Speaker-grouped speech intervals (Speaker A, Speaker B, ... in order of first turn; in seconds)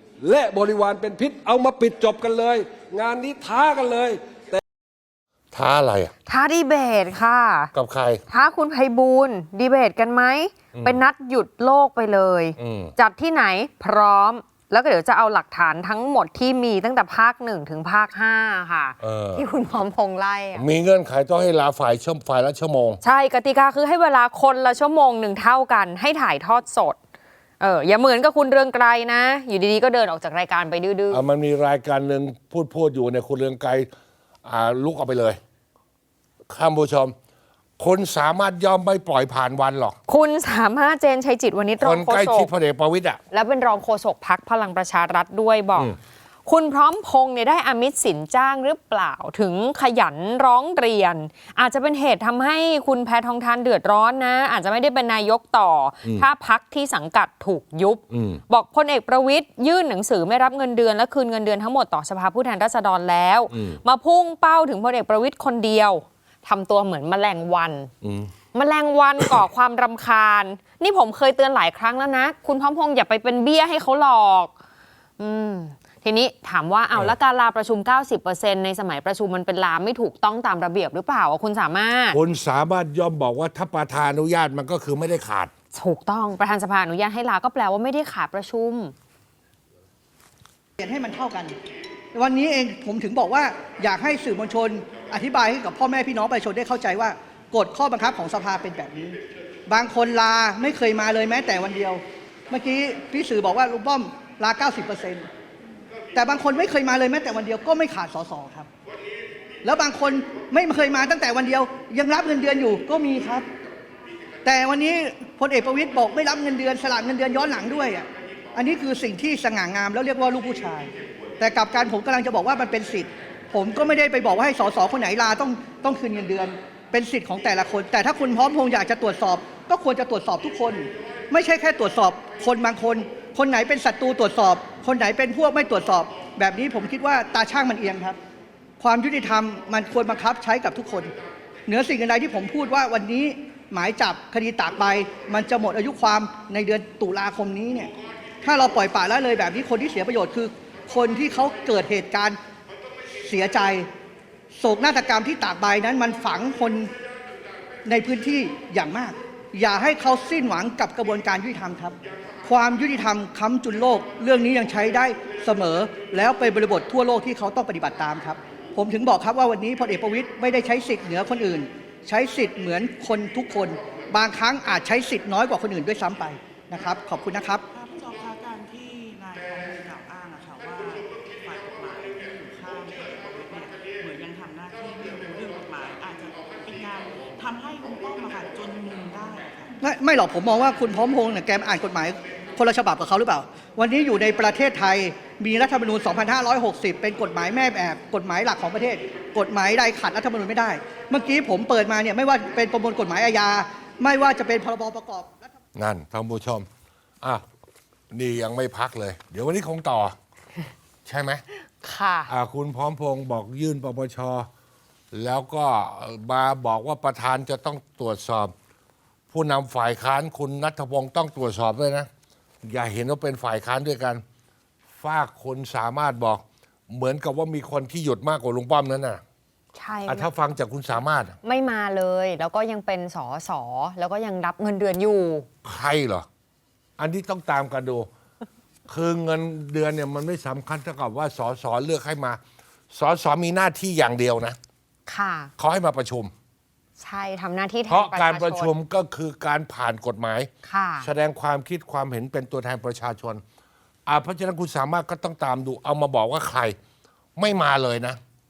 Speaker A: 0.2-4.6
Speaker B: 5.5-6.1, 7.7-8.2, 10.7-11.0, 12.6-12.9, 19.0-19.4, 20.5-23.0, 31.1-33.9, 34.4-35.4, 36.5-37.1, 37.8-40.0, 41.8-43.2, 58.1-58.4, 63.5-63.8, 68.0-68.3, 82.1-85.5, 205.7-206.7, 208.1-210.1, 211.1-211.4, 212.3-214.5, 215.1-218.5, 219.3-222.1, 222.6-224.2, 225.0-229.2, 230.1-231.3, 235.6-236.3, 237.0-238.1, 238.9-242.4, 242.9-244.6, 245.6-246.3, 247.9-250.5, 251.0-253.4, 254.1-256.8, 257.4-258.2
Speaker C: 6.2-7.7, 8.3-20.6, 23.0-27.0, 27.6-31.2, 40.1-42.5, 43.3-45.9, 46.5-67.9, 68.5-74.5, 75.2-82.2, 85.7-88.9, 211.8-212.3, 229.7-230.3, 231.4-235.5, 245.1-245.5, 247.0-248.7, 250.6-251.1
Speaker D: 90.8-91.5, 92.1-105.2, 106.1-108.7, 109.6-113.5, 114.4-138.2, 138.8-141.1, 141.7-147.9, 148.4-152.4, 153.2-153.9, 154.6-156.9, 157.8-177.6, 189.8-205.5
Speaker E: 177.7-189.8